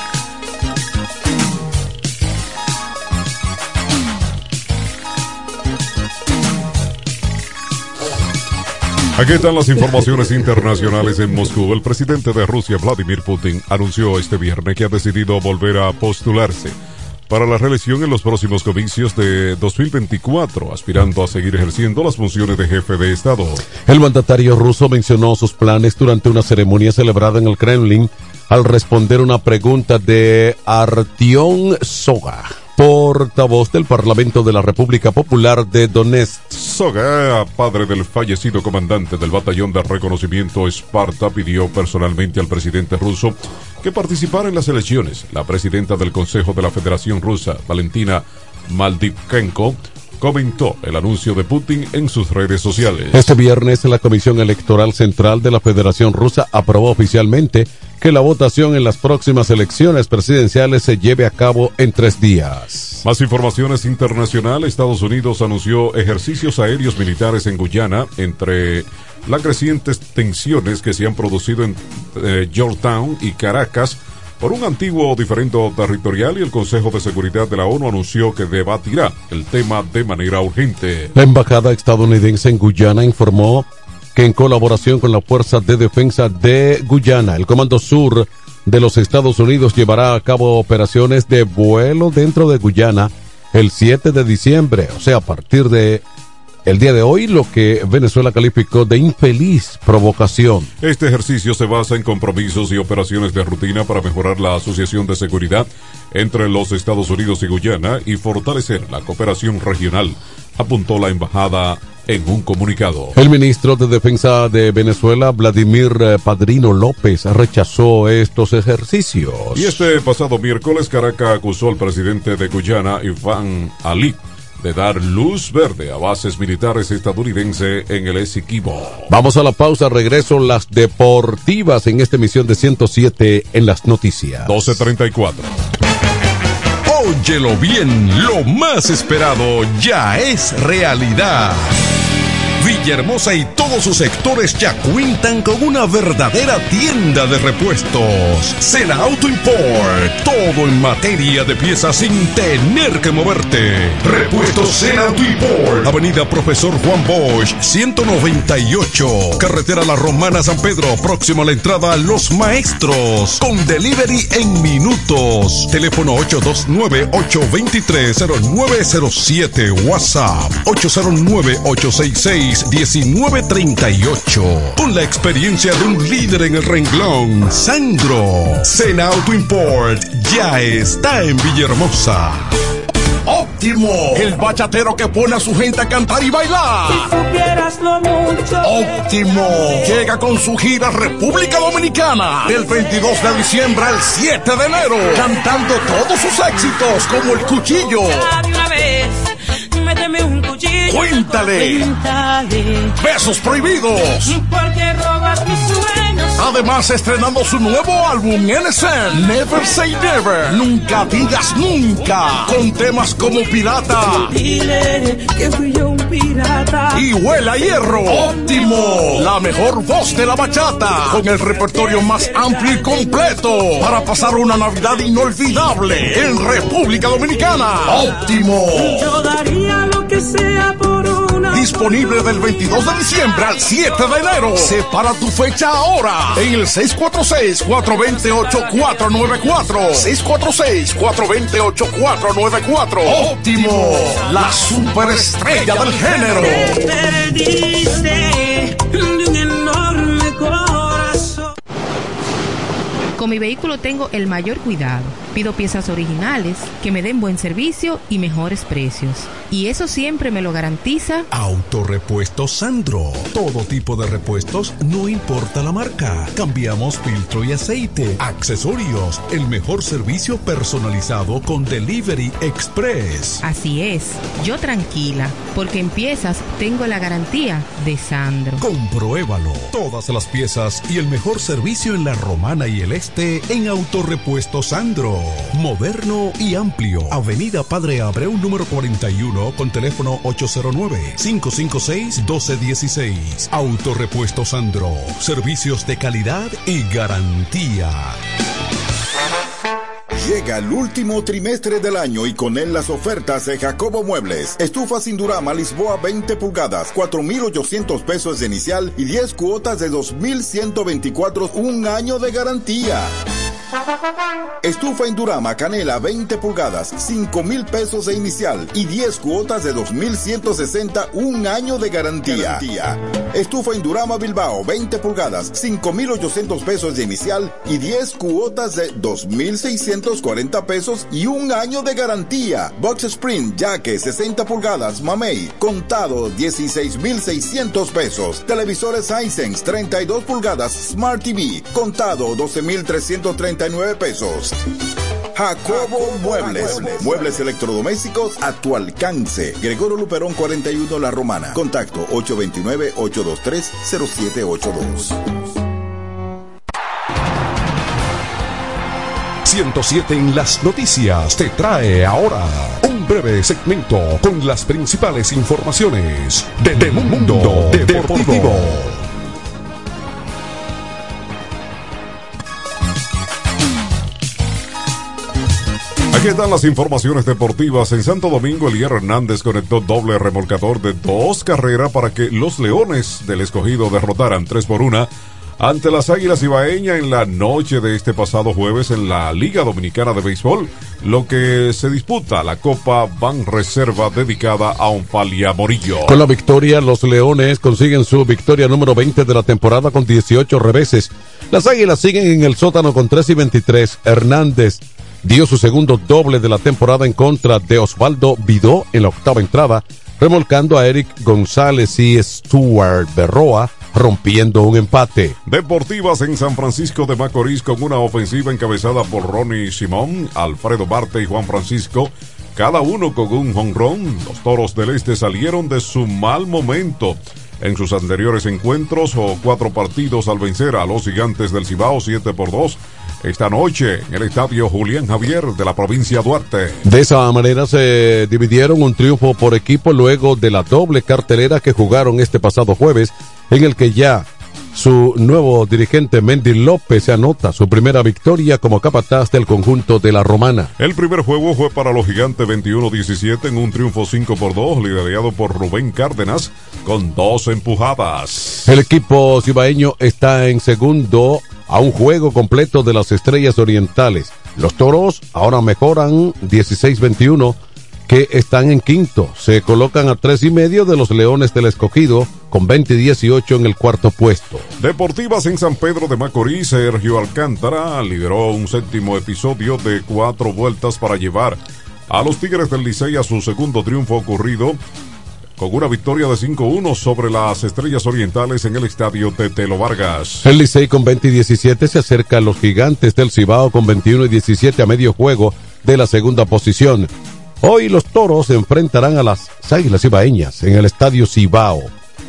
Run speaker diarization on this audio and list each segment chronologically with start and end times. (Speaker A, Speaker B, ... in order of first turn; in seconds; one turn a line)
Speaker A: 9.2-16.7
Speaker A: 17.3-23.6
Speaker B: 23.9-36.5
Speaker A: 36.5-53.1
Speaker B: 53.1-63.0
Speaker A: 63.0-81.1
Speaker B: 81.1-96.0
Speaker B: 96.7-100.7
Speaker A: 100.8-113.2
Speaker B: 113.2-119.8
Speaker A: 119.5-129.0
Speaker B: 129.1-134.5
Speaker A: 134.4-135.5
Speaker C: 136.8-141.7
Speaker C: 142.6-182.5
Speaker D: 183.3-187.1
Speaker E: 187.2-188.6
Speaker D: 188.6-198.3
Speaker E: 198.4-199.2
Speaker E: 199.8-200.9
Speaker D: 200.8-201.9
Speaker E: 201.7-202.9
Speaker D: 202.9-204.3
Speaker E: 204.4-206.3
Speaker D: 206.3-214.3
Speaker E: 214.3-216.9
Speaker D: 216.9-229.1
Speaker E: 229.2-231.5
Speaker D: 231.5-246.7
Speaker E: 247.3-251.0
Speaker F: 253.2-261.3
Speaker C: 261.3-273.4
Speaker F: 273.4-278.6
Speaker C: 278.6-298.2
Speaker G: 300.1-313.1
Speaker G: 314.6-344.6
Speaker G: 345.3-355.1
Speaker C: 359.4-368.9
Speaker A: 376.1-396.2
Speaker B: 396.0-415.4
Speaker A: 415.4-436.8
Speaker B: 436.8-450.7
Speaker A: 450.8-458.6
Speaker B: 458.6-467.6
Speaker B: 468.1-474.7
Speaker A: 474.8-484.8
Speaker A: 485.6-490.4
Speaker B: 490.4-497.1
Speaker B: 497.6-501.9